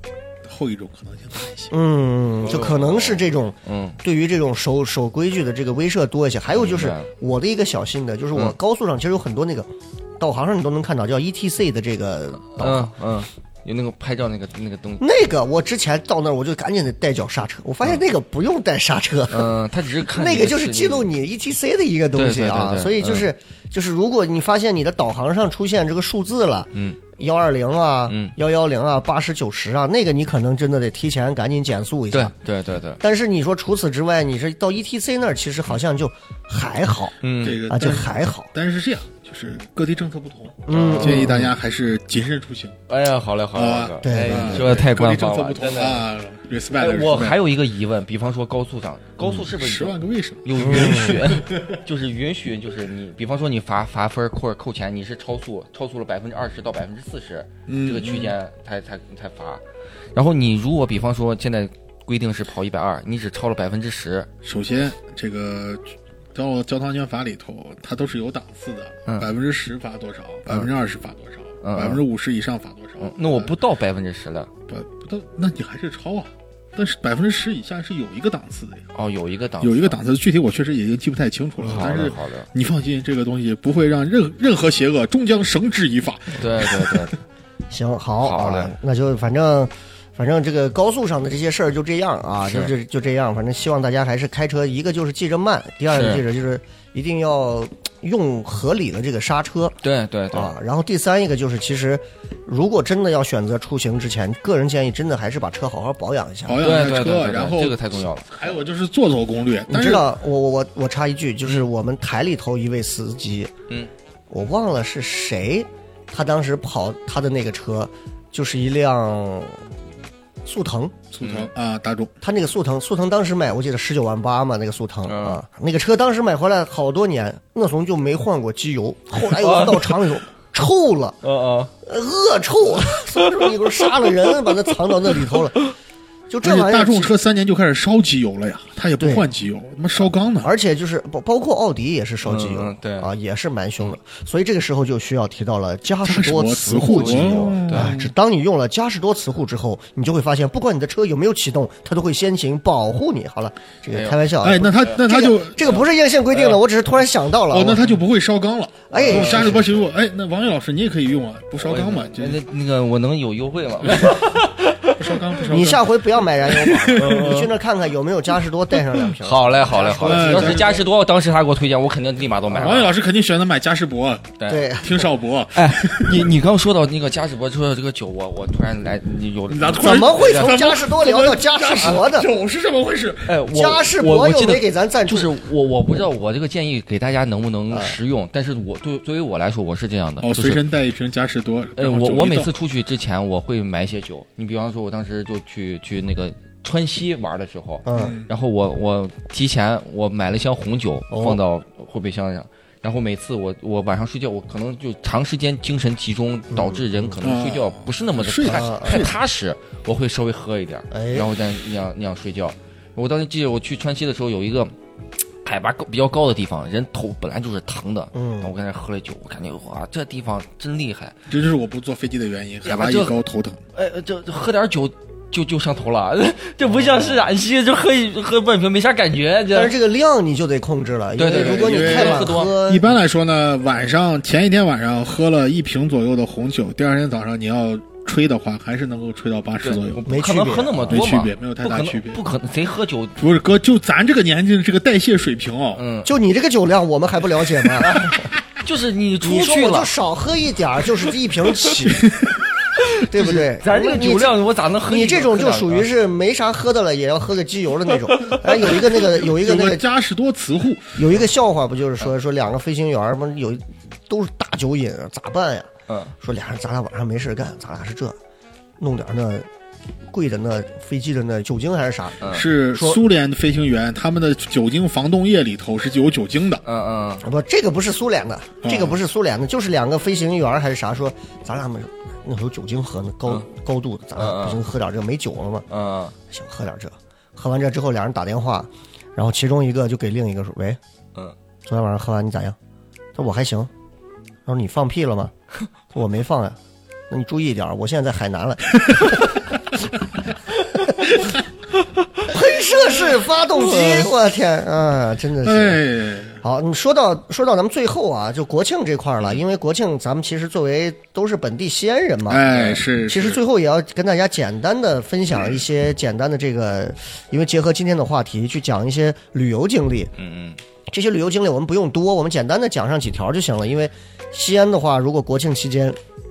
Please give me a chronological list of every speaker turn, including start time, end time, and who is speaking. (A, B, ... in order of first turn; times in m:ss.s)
0:00.4-0:01.7 A
0:01.7-0:12.9 B
0:02.4-0:04.0 C
0:06.5-0:07.1 C
0:12.5-0:15.0 C
0:15.0-0:19.5 B
0:19.3-0:21.1 C
0:20.1-0:32.3 B
0:22.2-0:23.3 C
0:28.1-0:28.3 C
0:32.1-0:33.0 C
0:33.0-0:38.5 B
0:37.2-0:37.6 C
0:37.4-0:42.8 A
0:40.7-0:41.5 B
0:40.7-0:41.4 C
0:42.9-0:46.0 C
0:43.5-0:47.4 A
0:44.0-0:44.8 B
0:46.8-0:59.6 C
0:49.3-0:51.8 A
0:50.6-0:51.2 B
0:57.7-0:58.3 A
1:00.1-1:04.3 C
1:04.4-1:05.8 A
1:06.4-1:13.5 A
1:11.6-1:12.0 C
1:13.0-1:14.5 C
1:14.7-1:18.9 A
1:18.9-1:20.0 C
1:19.6-1:27.0 A
1:21.6-1:22.5 C
1:26.4-1:27.2 C
1:27.7-1:39.8 B
1:28.2-1:28.7 C
1:32.4-1:32.7 C
1:35.9-1:36.2 C
1:39.8-1:40.5 C
1:40.3-1:46.6 B
1:46.5-1:50.1 A
1:46.6-1:48.3 C
1:49.7-1:53.5 B
1:54.3-1:59.6 B
2:00.4-2:01.0 B
2:01.1-2:02.1 A
2:01.2-2:01.5 C
2:02.2-2:11.2 B
2:05.1-2:05.4 C
2:09.3-2:10.0 C
2:11.2-2:11.7 C
2:11.8-2:15.7 B
2:16.3-2:17.1 B
2:16.4-2:20.5 A
2:19.0-2:19.3 B
2:20.4-2:37.9 B
2:22.2-2:23.1 C
2:26.0-2:28.1 A
2:26.9-2:27.9 C
2:33.9-2:35.0 C
2:34.4-2:36.6 A
2:37.5-2:42.4 A
2:38.9-2:39.6 B
2:39.0-2:39.6 C
2:41.6-2:45.0 C
2:45.0-2:47.4 A
2:45.5-2:50.7 B
2:47.0-2:47.5 C
2:49.2-2:52.9 C
2:49.9-2:50.8 A
2:52.5-2:52.8 B
2:52.6-2:56.3 A
2:54.4-2:54.6 C
2:54.5-2:55.1 B
2:55.5-3:00.5 C
2:59.5-3:03.4 A
2:59.8-3:02.3 B
3:03.3-3:10.6 C
3:03.5-3:05.3 B
3:07.7-3:08.0 B
3:10.2-3:12.5 A
3:11.8-3:34.7 C
3:17.8-3:18.2 B
3:17.9-3:18.3 A
3:21.1-3:21.4 B
3:26.5-3:27.1 B
3:27.2-3:29.1 A
3:28.4-3:29.1 B
3:30.9-3:31.3 B
3:35.4-3:41.2 C
3:38.1-3:38.5 B
3:41.3-3:43.6 A
3:42.6-3:43.1 C
3:43.7-3:49.7 C
3:49.5-3:52.9 B
3:51.2-3:52.5 C
3:51.3-4:00.0 A
3:59.6-4:03.2 C
4:00.1-4:01.0 B
4:00.9-4:02.2 A
4:03.2-4:05.8 A
4:05.8-4:06.1 C
4:06.0-4:08.1 B
4:07.8-4:09.9 C
4:09.2-4:12.0 B
4:11.9-4:12.4 A
4:12.8-4:15.9 C
4:13.1-4:19.8 B
4:18.7-4:21.1 A
4:21.0-4:25.7 B
4:25.9-4:26.1 C
4:26.2-4:28.2 B
4:28.8-4:29.5 B
4:30.1-4:33.0 B
4:32.2-4:32.5 C
4:32.3-4:36.6 A
4:36.6-4:37.2 C
4:37.2-4:45.7 B
4:38.6-4:39.0 A
4:44.2-4:44.6 C
4:45.7-4:46.2 C
4:46.3-4:50.8 B
4:51.7-4:52.6 B
4:53.2-4:53.7 B
4:54.5-4:55.3 B
4:55.9-4:56.6 B
4:57.1-4:59.4 B
5:00.7-5:01.1 B
5:02.2-5:05.8 B
5:03.7-5:04.0 A
5:05.4-5:06.4 A
5:06.4-5:20.1 B
5:12.3-5:13.4 A
5:12.5-5:12.8 C
5:20.2-5:20.6 C
5:20.9-5:26.0 B